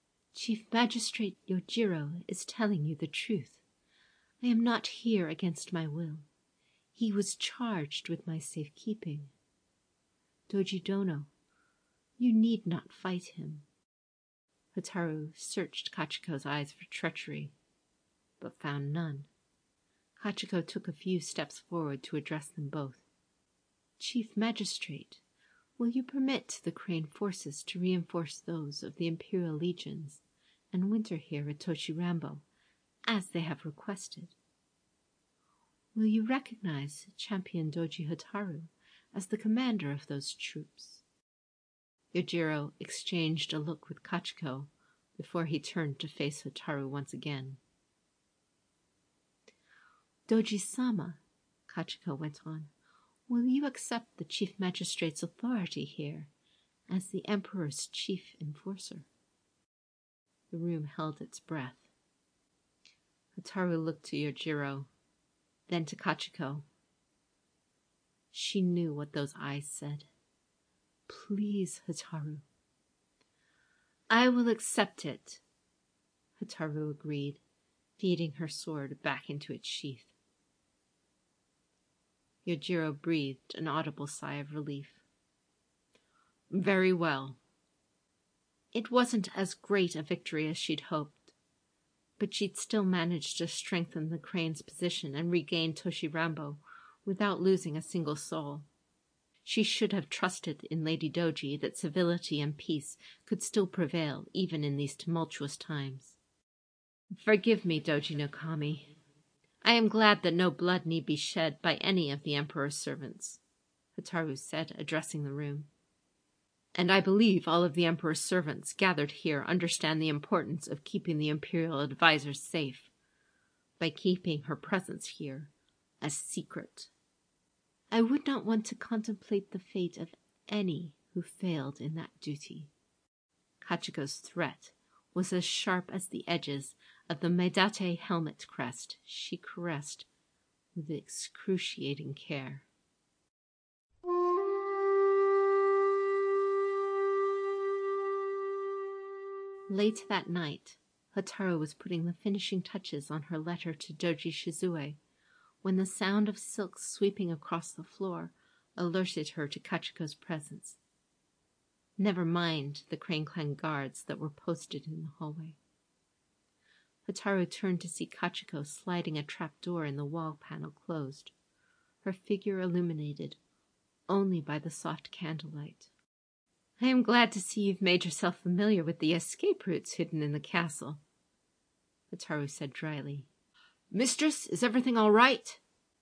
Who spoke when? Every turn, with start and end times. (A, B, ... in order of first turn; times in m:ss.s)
0:00.3-0:03.6 A
0:04.4-0:06.2 A
0:07.0-0:09.3 A
0:10.5-0:11.3 A
0:12.2-0:13.7 A
0:14.7-0:17.5 A
0:18.4-0:19.3 A
0:20.2-0:23.1 A
0:24.0-0:25.2 A
0:25.8-0:32.4 A
0:33.1-0:34.3 A
0:36.0-0:41.0 A
0:42.1-0:47.6 A
0:50.3-0:52.7 A
0:53.3-0:56.3 A
0:56.9-0:59.1 A
1:00.5-1:01.9 A
1:03.4-1:04.9 A
1:05.7-1:06.6 A
1:08.3-1:10.1 A
1:11.1-1:12.4 A
1:14.1-1:15.4 A
1:16.4-1:17.4 A
1:18.0-1:20.1 A
1:22.4-1:25.0 A
1:26.5-1:27.4 A
1:28.7-1:31.4 A
1:32.2-1:38.7 A
1:39.4-1:46.2 A
1:47.2-1:49.0 A
1:49.6-1:53.4 A
1:54.0-1:55.7 A
1:56.8-2:02.9 A
2:03.8-2:06.9 A
2:07.9-2:12.7 A
2:13.6-2:20.1 A
2:20.8-2:22.7 A
2:29.7-2:35.0 A
2:35.6-2:40.8 A
2:42.0-2:45.6 A
2:47.1-2:51.3 A
2:52.0-2:53.4 A
2:54.1-2:55.9 A
2:56.8-3:01.0 A
3:02.1-3:03.3 A
3:03.9-3:05.6 A